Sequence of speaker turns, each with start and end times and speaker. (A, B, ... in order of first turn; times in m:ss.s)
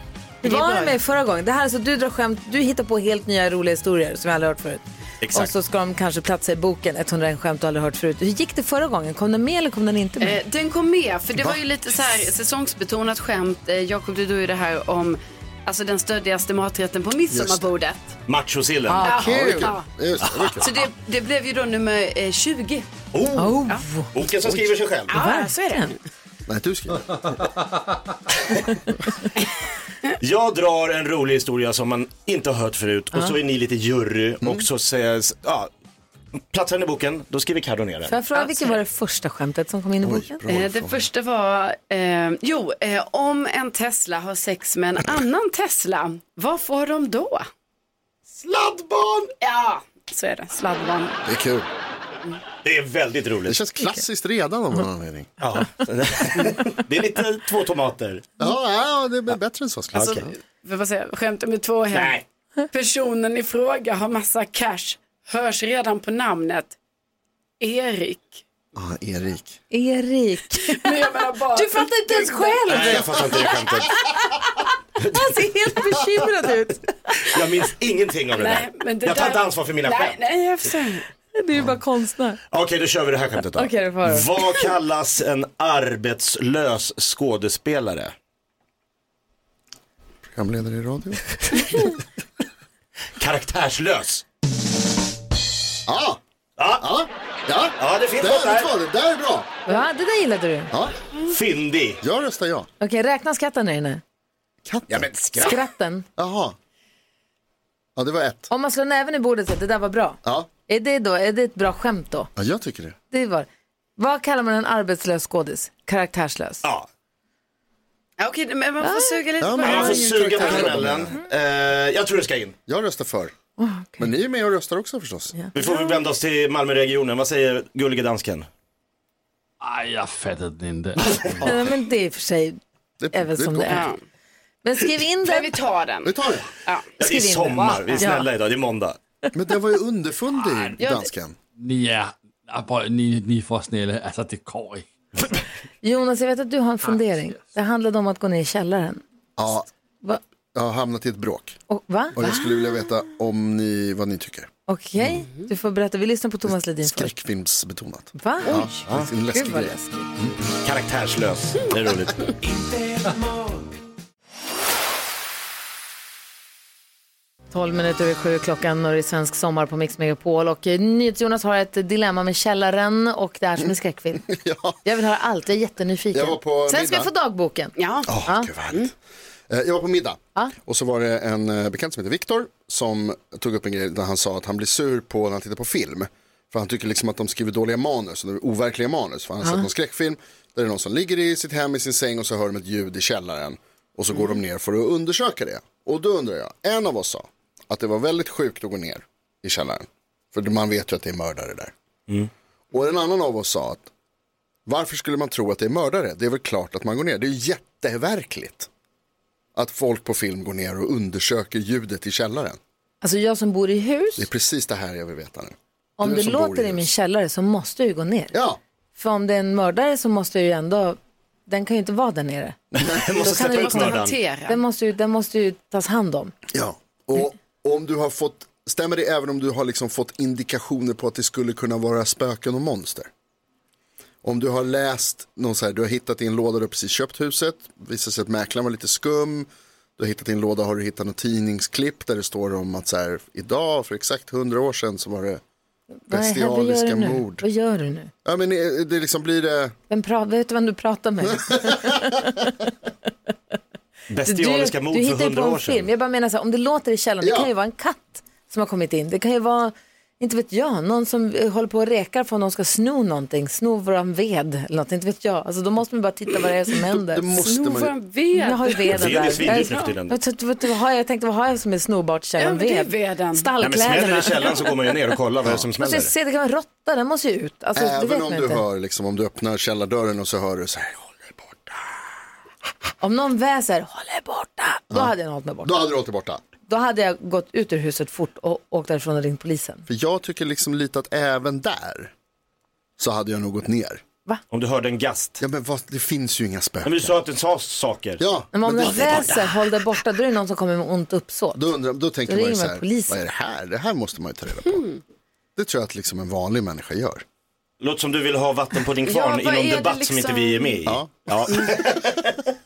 0:00.4-0:10.4 A
0:00.4-0:00.9 B
0:05.2-0:05.5 C
0:10.2-0:18.1 B
0:17.3-0:17.7 D
0:18.3-0:19.5 C
0:18.9-0:19.7 A
0:19.0-0:20.7 D
0:19.0-0:19.9 B
0:20.2-0:20.7 C
0:20.6-0:22.9 B
0:23.1-0:25.1 C
0:23.4-0:24.1 A
0:25.1-0:26.0 B
0:25.1-0:25.9 A
0:26.5-0:27.3 D
0:30.2-0:35.7 C
0:36.5-0:38.1 C
0:38.1-0:40.4 A
0:38.3-0:38.8 B
0:40.0-0:41.0 D
0:40.5-0:47.5 B
0:48.3-0:49.3 D
0:49.4-0:51.2 B
0:51.2-0:51.7 D
0:52.6-0:53.6 C
0:53.4-0:55.4 D
0:55.4-0:58.3 C
0:58.4-1:00.2 D
0:59.9-1:00.2 C
0:59.9-1:02.2 B
1:01.9-1:02.2 C
1:02.7-1:06.7 B
1:07.6-1:08.4 B
1:08.7-1:09.6 D
1:09.7-1:13.6 A
1:10.6-1:13.0 B
1:12.7-1:14.0 C
1:15.0-1:15.4 C
1:15.1-1:17.2 A
1:17.2-1:20.2 C
1:18.3-1:21.0 B
1:21.3-1:22.4 A
1:22.5-1:28.1 C
1:23.6-1:24.3 A
1:30.3-1:31.4 D
1:33.2-1:34.2 C
1:35.8-1:36.2 D
1:36.6-1:36.8 C
1:36.8-1:39.5 D
1:37.8-1:38.7 C
1:39.7-1:40.7 A
1:41.3-1:42.0 C
1:42.0-1:42.7 D
1:42.8-1:44.0 A
1:44.6-1:45.1 D
1:44.9-1:45.6 C
1:45.4-1:46.0 A
1:46.2-1:46.6 D
1:48.0-1:48.5 D
1:48.5-1:52.3 A
1:50.2-1:50.5 D
1:52.4-1:53.0 D
1:53.1-1:56.6 A
1:58.2-2:00.7 B
1:58.8-1:59.2 A
1:59.4-2:01.1 D
1:59.6-2:02.6 C
2:02.7-2:03.3 D
2:03.6-2:04.0 A
2:04.0-2:05.3 D
2:05.5-2:08.5 C
2:09.6-2:11.7 E
2:11.4-2:12.6 A
2:13.0-2:13.9 D
2:13.1-2:13.9 A
2:13.7-2:14.0 B
2:14.6-2:15.5 A
2:15.2-2:16.9 B
2:16.0-2:16.5 D
2:17.0-2:19.0 C
2:17.0-2:18.3 A
2:19.3-2:21.4 D
2:20.8-2:21.1 B
2:21.6-2:24.9 E
2:25.8-2:29.0 A
2:26.9-2:27.4 E
2:29.4-2:29.7 D
2:30.5-2:31.6 D
2:31.7-2:32.2 A
2:32.1-2:34.5 D
2:32.2-2:32.5 B
2:34.7-2:37.1 A
2:36.5-2:40.3 D
2:38.2-2:40.1 A
2:40.6-2:42.3 C
2:47.5-2:54.3 A
2:54.3-2:54.8 D
2:54.8-2:58.5 A
2:56.1-2:57.1 D
2:57.8-2:58.1 B
2:58.1-2:58.9 D
2:59.5-3:21.7 D
3:22.7-3:23.9 D
3:24.6-3:28.7 D
3:29.5-3:32.6 D
3:33.0-3:34.3 A
3:34.2-3:36.9 D
3:36.0-3:38.3 A
3:38.3-3:38.6 D
3:39.0-3:42.6 A
3:42.7-3:44.2 C
3:43.2-3:44.6 B
3:43.2-3:46.3 A
3:46.5-3:53.1 D
3:54.2-4:05.4 D
4:06.1-4:08.1 A
4:06.1-4:07.4 D
4:08.2-4:09.8 D
4:09.9-4:12.5 A
4:11.2-4:12.3 D
4:14.1-4:15.8 C
4:14.2-4:27.3 A
4:17.2-4:17.5 D
4:26.9-4:27.9 D
4:27.4-4:29.9 B
4:28.3-4:34.7 A
4:28.9-4:30.2 C
4:32.4-4:33.5 B
4:33.6-4:36.1 C
4:35.8-4:38.6 A
4:37.8-4:41.8 D
4:43.0-4:45.8 A
4:44.9-4:46.4 D
4:46.7-4:49.8 A
4:49.9-4:52.1 D
4:53.0-4:54.0 D
4:54.5-4:55.4 C
4:55.4-4:57.2 D
4:56.8-4:58.2 C
4:58.2-4:59.4 D
4:58.5-5:01.6 A
4:58.8-4:59.4 C
5:01.5-5:04.8 D
5:02.3-5:03.2 A
5:04.7-5:05.0 B
5:05.6-5:07.2 D
5:07.8-5:12.5 C
5:09.0-5:10.8 B
5:10.8-5:11.7 D
5:11.5-5:11.8 B